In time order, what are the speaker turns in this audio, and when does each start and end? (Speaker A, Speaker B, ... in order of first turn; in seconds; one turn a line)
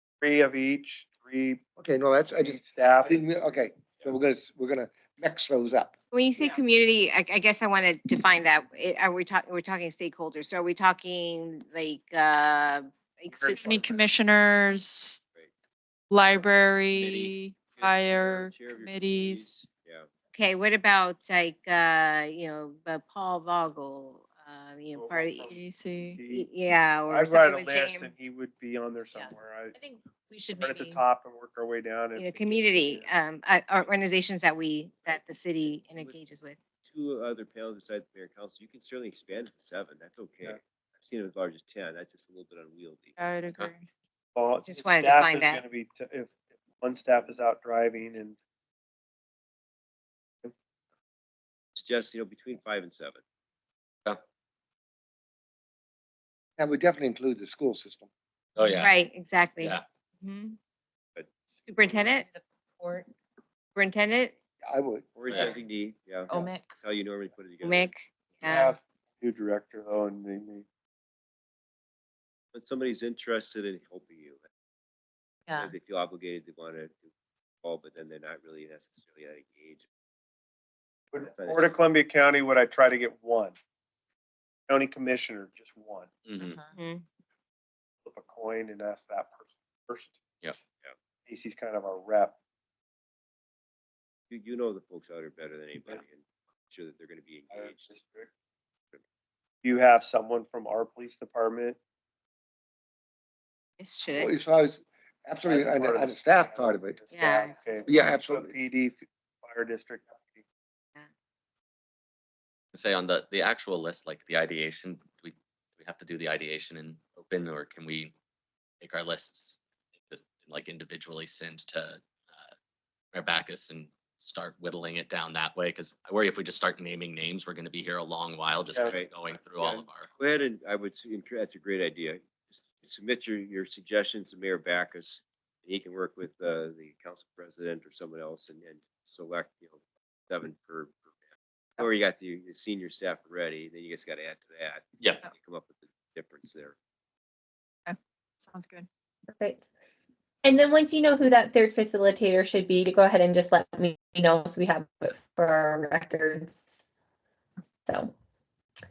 Speaker A: 0.2-1.6
Speaker B: 1.8-5.9
Speaker A: 2.4-3.2
Speaker C: 6.1-13.6
Speaker A: 13.3-14.0
Speaker D: 13.4-15.2
Speaker D: 16.1-19.6
Speaker E: 16.3-20.1
Speaker C: 20.3-25.5
Speaker A: 24.9-26.5
Speaker D: 25.5-26.2
Speaker C: 26.3-28.1
Speaker A: 27.1-29.8
Speaker A: 30.5-33.1
Speaker C: 32.2-36.6
Speaker E: 36.9-43.2
Speaker D: 43.2-43.9
Speaker A: 44.4-48.4
Speaker C: 44.6-45.6
Speaker E: 51.8-53.2
Speaker B: 56.6-58.1
Speaker F: 58.6-59.0
Speaker C: 58.8-60.6
Speaker F: 59.6-59.9
Speaker C: 61.7-62.3
Speaker C: 63.8-64.4
Speaker B: 64.7-65.5
Speaker E: 65.2-66.3
Speaker F: 65.3-65.6
Speaker E: 66.8-68.5
Speaker C: 67.6-68.7
Speaker A: 68.5-70.6
Speaker E: 72.5-74.4
Speaker E: 75.5-77.1
Speaker E: 77.6-79.8
Speaker A: 81.1-83.5
Speaker E: 81.2-81.8
Speaker A: 84.7-86.1
Speaker F: 86.2-86.6
Speaker D: 86.4-86.7
Speaker C: 86.8-87.0
Speaker A: 88.0-90.2
Speaker A: 91.3-92.3
Speaker E: 94.3-97.9
Speaker A: 97.5-98.3
Speaker A: 99.6-101.8
Speaker C: 103.8-104.3
Speaker B: 104.1-107.0
Speaker A: 105.4-110.4
Speaker C: 107.1-107.6
Speaker B: 107.9-108.5
Speaker F: 112.7-118.1
Speaker F: 118.8-119.6
Speaker F: 120.1-122.5
Speaker F: 123.1-130.1
Speaker E: 128.8-141.1
Speaker E: 141.8-146.8
Speaker D: 147.9-148.9
Speaker G: 149.3-149.7
Speaker G: 150.4-156.8
Speaker G: 157.9-158.1